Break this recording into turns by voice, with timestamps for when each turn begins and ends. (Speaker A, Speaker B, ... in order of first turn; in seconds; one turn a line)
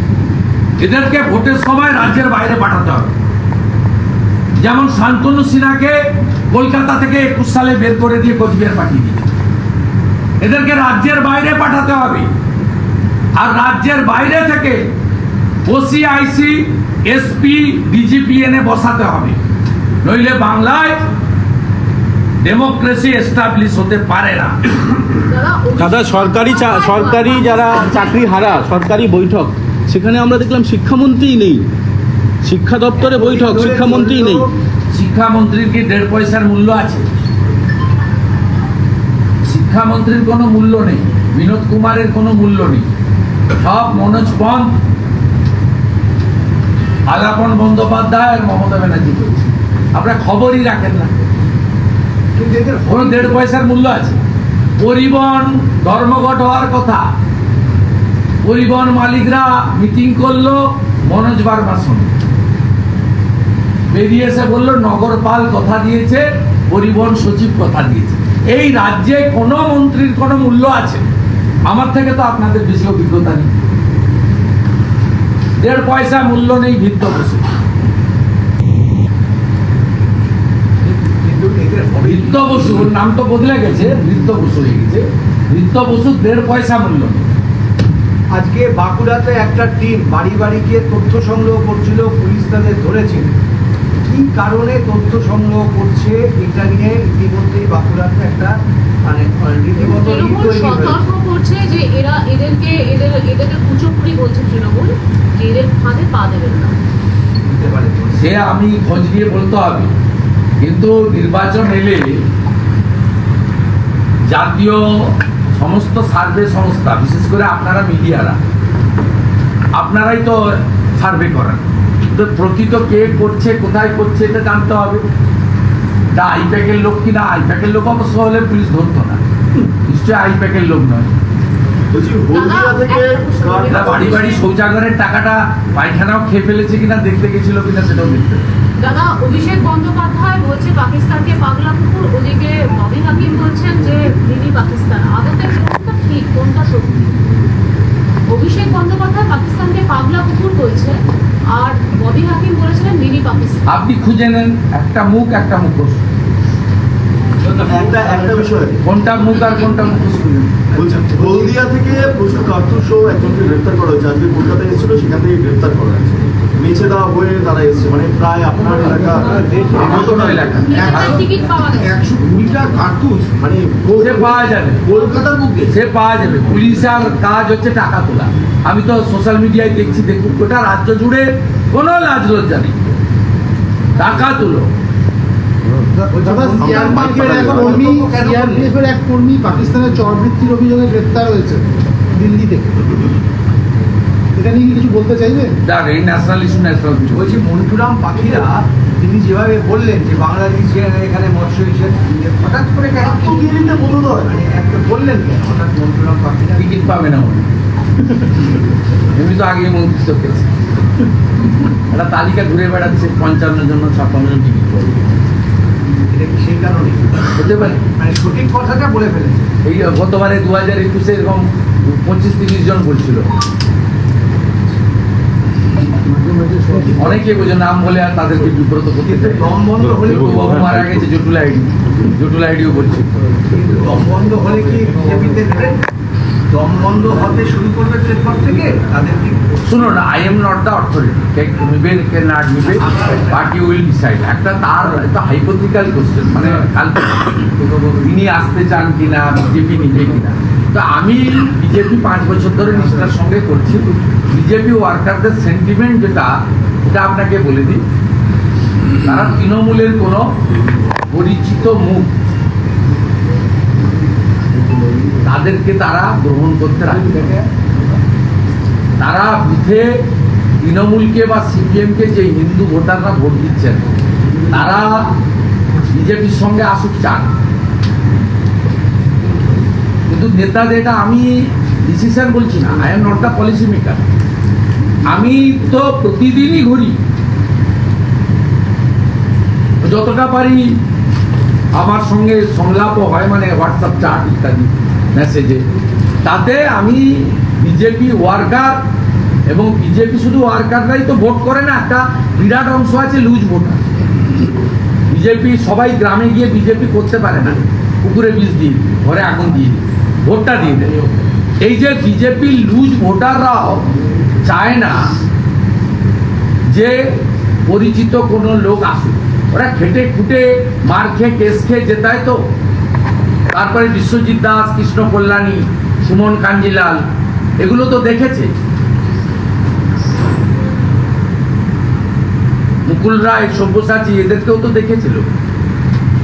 Speaker A: 0.8-3.1
Speaker A: 4.6-9.3
Speaker A: 10.4-12.3
Speaker A: 13.3-14.9
Speaker A: 15.7-19.4
Speaker A: 20.0-21.0
Speaker A: 22.4-24.6
Speaker B: 25.2-28.8
Speaker C: 25.8-31.6
Speaker C: 32.5-33.5
Speaker D: 33.0-34.5
Speaker A: 34.9-37.1
Speaker A: 39.4-42.9
Speaker A: 43.5-44.7
Speaker A: 47.1-51.1
Speaker D: 52.4-53.4
Speaker A: 52.8-54.2
Speaker A: 54.8-57.1
Speaker A: 58.4-62.1
Speaker A: 63.9-71.0
Speaker A: 71.7-73.5
Speaker A: 75.6-77.5
Speaker D: 80.9-82.8
Speaker A: 82.0-87.3
Speaker D: 88.3-93.3
Speaker D: 94.0-101.0
Speaker B: 99.8-106.8
Speaker D: 107.4-108.3
Speaker A: 108.1-109.9
Speaker A: 110.6-112.2
Speaker A: 114.3-118.4
Speaker A: 119.7-125.0
Speaker A: 126.1-129.2
Speaker A: 129.8-131.1
Speaker E: 131.9-134.4
Speaker B: 132.3-134.4
Speaker A: 133.7-138.5
Speaker B: 138.8-147.1
Speaker B: 148.3-153.6
Speaker A: 153.7-156.0
Speaker D: 157.5-158.5
Speaker E: 157.7-158.8
Speaker A: 158.8-160.5
Speaker D: 160.7-161.5
Speaker E: 160.7-170.8
Speaker D: 168.8-170.4
Speaker A: 169.7-171.2
Speaker B: 170.6-172.0
Speaker F: 172.0-172.3
Speaker G: 172.3-173.3
Speaker E: 173.4-174.3
Speaker A: 173.9-174.9
Speaker G: 174.0-174.3
Speaker G: 174.8-175.7
Speaker A: 175.7-182.8
Speaker A: 183.9-184.7
Speaker D: 186.0-188.7
Speaker F: 186.1-193.1
Speaker F: 194.3-195.6
Speaker A: 195.6-197.3
Speaker D: 197.1-203.7
Speaker E: 203.2-204.3
Speaker D: 204.2-207.0
Speaker A: 206.6-207.4
Speaker A: 209.1-210.5
Speaker A: 211.9-215.1
Speaker D: 216.1-219.5
Speaker A: 217.3-217.8
Speaker A: 219.6-223.3
Speaker F: 226.1-227.0
Speaker A: 226.9-233.1
Speaker D: 229.0-230.5
Speaker D: 233.5-235.8
Speaker D: 236.5-239.5
Speaker A: 239.6-247.4
Speaker D: 242.6-243.4
Speaker A: 248.0-257.8
Speaker A: 259.0-260.3
Speaker A: 261.1-262.1
Speaker A: 265.2-267.4
Speaker A: 269.0-270.0
Speaker A: 270.6-273.9
Speaker A: 274.5-275.1
Speaker A: 275.9-277.3
Speaker A: 280.1-281.3
Speaker A: 281.8-284.1
Speaker A: 285.1-287.0
Speaker A: 289.8-290.7
Speaker A: 291.7-295.6
Speaker A: 296.2-298.8
Speaker A: 299.5-303.9
Speaker A: 305.1-311.0
Speaker A: 311.6-313.8
Speaker A: 314.4-315.1
Speaker A: 316.7-322.4
Speaker A: 323.5-327.0
Speaker A: 327.6-328.5
Speaker A: 332.9-335.3